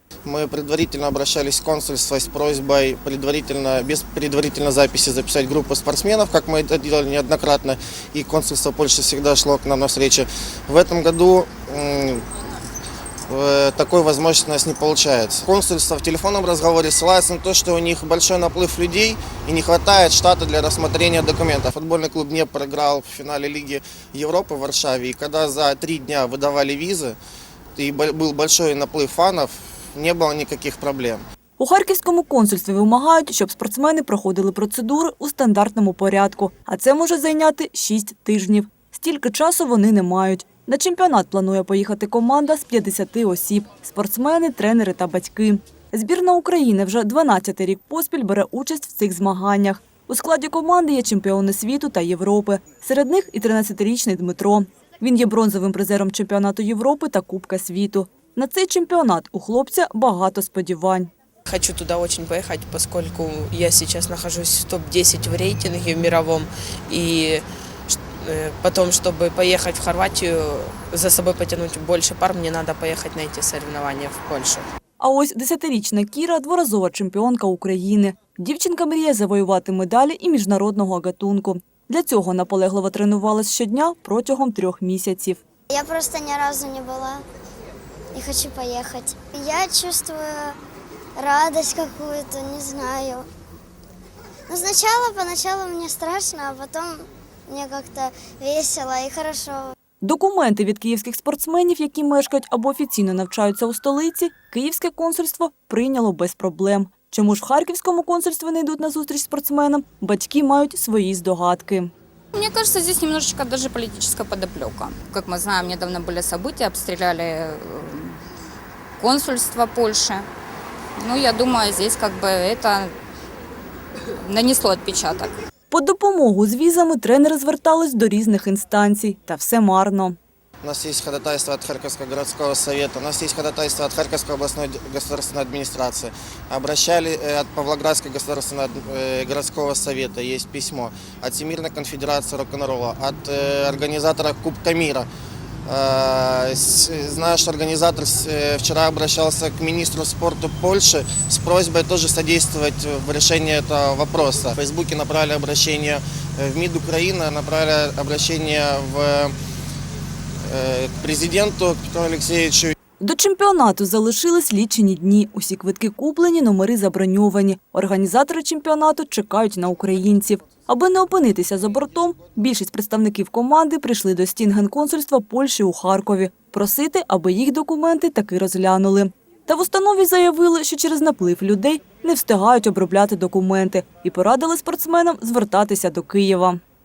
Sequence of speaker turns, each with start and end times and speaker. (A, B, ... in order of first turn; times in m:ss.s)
0:00.2-0:12.2 A
0:13.3-0:27.2 A
0:27.8-0:31.2 A
0:31.6-1:01.1 B
1:01.5-1:14.7 C
1:15.0-1:25.4 B
1:25.7-1:27.2 D
1:28.1-1:30.6 D
1:31.2-1:33.3 D
1:34.5-1:39.7 D
1:40.0-1:51.9 B
1:52.3-1:58.2 E
1:59.0-2:00.3 E
2:01.0-2:02.9 E
2:04.2-2:05.3 E
2:05.7-2:10.2 B
2:10.6-2:25.1 A
2:25.6-2:39.3 A
2:40.5-2:42.7 A
2:43.0-3:06.6 B